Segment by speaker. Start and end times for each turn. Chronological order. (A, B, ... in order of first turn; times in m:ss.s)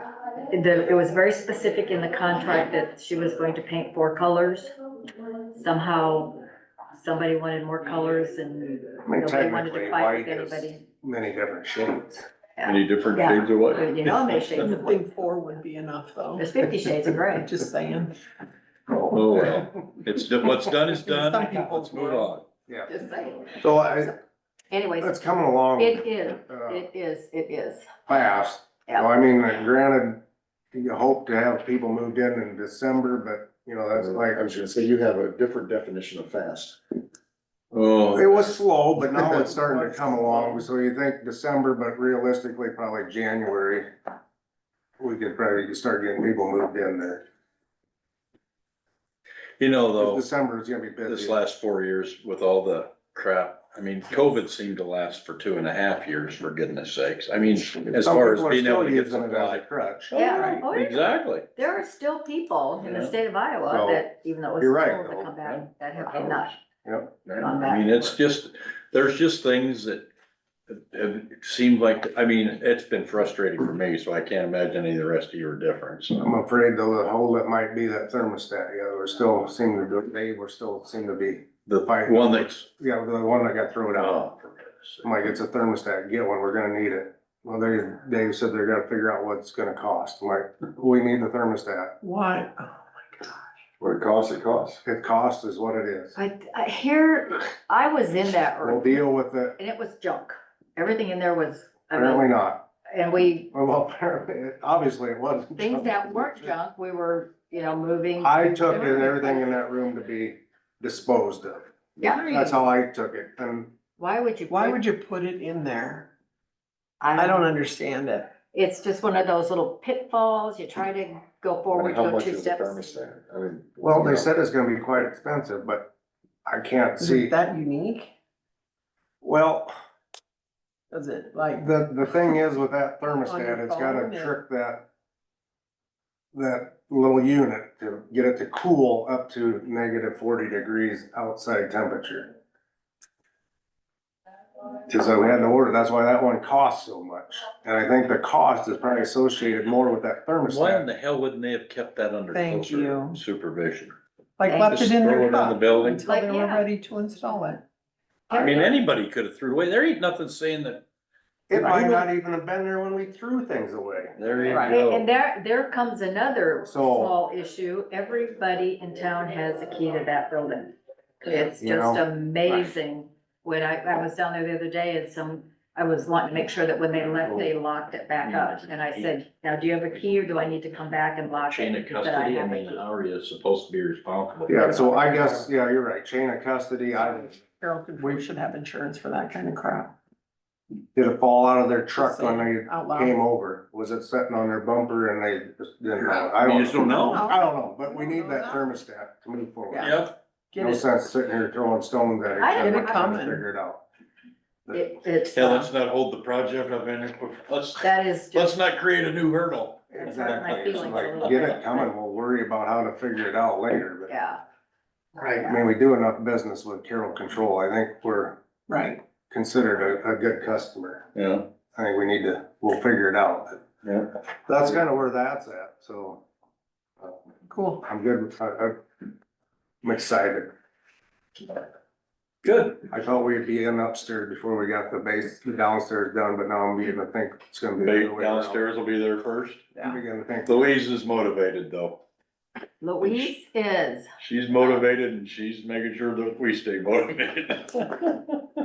0:00.4-0:04.7 A
0:05.5-0:06.4 A
0:07.0-0:10.8 A
0:09.1-0:12.2 B
0:12.6-0:15.0 A
0:12.6-0:14.7 C
0:14.6-0:16.5 D
0:16.4-0:17.5 A
0:17.3-0:18.1 D
0:18.9-0:22.4 C
0:20.9-0:22.4 D
0:22.9-0:24.1 A
0:23.6-0:24.1 B
0:24.7-0:25.2 A
0:25.0-0:26.8 B
0:25.8-0:28.1 A
0:28.1-0:30.2 B
0:30.7-0:34.6 B
0:34.0-0:36.8 E
0:37.7-0:38.3 C
0:38.1-0:43.9 B
0:39.3-0:40.6 D
0:45.0-0:47.2 B
0:49.6-0:50.2 C
0:50.0-0:51.4 B
0:51.1-1:01.4 C
0:58.0-1:00.1 B
1:00.1-1:01.0 A
1:00.4-1:00.6 D
1:01.5-1:06.5 A
1:02.8-1:03.1 C
1:03.6-1:04.0 B
1:04.6-1:05.3 B
1:05.4-1:06.6 C
1:06.8-1:07.1 B
1:07.2-1:10.1 C
1:07.4-1:08.1 A
1:10.7-1:16.4 C
1:16.2-1:24.5 B
1:21.6-1:22.6 C
1:23.9-1:24.3 C
1:25.0-1:32.0 B
1:32.0-1:33.3 D
1:33.8-1:34.8 E
1:34.8-1:36.2 B
1:36.2-1:39.0 A
1:38.6-1:39.6 B
1:39.6-1:43.5 A
1:41.9-1:42.7 B
1:43.5-1:46.5 B
1:45.6-1:49.6 A
1:48.2-1:51.6 B
1:52.0-1:52.5 A
1:52.3-1:53.7 B
1:54.0-1:54.8 A
1:54.5-1:56.1 D
1:57.0-1:57.5 A
1:57.2-1:58.3 D
1:58.5-2:03.0 A
2:01.7-2:04.3 E
2:03.8-2:05.9 B
2:06.4-2:07.3 B
2:07.0-2:08.1 D
2:09.2-2:09.7 B
2:10.9-2:11.7 D
2:11.5-2:14.9 B
2:13.0-2:14.4 D
2:16.3-2:22.3 B
2:24.9-2:30.8 B
2:30.4-2:34.0 C
2:32.3-2:33.2 D
2:34.4-2:37.6 D
2:34.4-2:34.8 A
2:34.7-2:36.0 C
2:36.0-2:36.6 A
2:38.3-2:38.7 A
2:38.3-2:40.8 C
2:41.5-2:44.1 B
2:41.5-2:42.1 D
2:44.2-2:45.1 C
2:44.6-3:02.8 A
2:46.7-2:47.1 B
2:51.6-2:52.0 B
2:58.2-2:59.2 C
3:01.5-3:04.6 C
3:04.5-3:07.4 B
3:04.5-3:05.4 A
3:07.6-3:09.9 D
3:10.9-3:20.0 B
3:12.0-3:13.2 D
3:16.4-3:17.2 C
3:16.8-3:18.6 D
3:19.7-3:20.0 D
3:19.8-3:20.1 C
3:20.5-3:20.9 D
3:20.6-3:23.8 B
3:22.4-3:23.0 A
3:22.6-3:23.4 D
3:24.7-3:25.7 A
3:25.3-3:31.3 C
3:27.8-3:28.6 A
3:29.9-3:34.1 B
3:30.0-3:31.9 A
3:34.1-3:34.4 A
3:35.2-3:38.4 B
3:38.7-3:39.0 D
3:39.3-3:41.1 B
3:41.1-3:41.5 C
3:41.7-3:43.6 B
3:43.8-3:44.1 C
3:44.5-3:46.2 B
3:47.5-3:47.8 D
3:47.8-3:48.8 B
3:49.8-3:50.5 B
3:52.4-3:52.8 C
3:52.9-3:58.6 B
3:57.8-3:59.7 C
3:59.8-4:00.6 B
4:00.4-4:02.0 C
4:02.8-4:04.1 A
4:03.0-4:03.3 C
4:04.2-4:08.4 C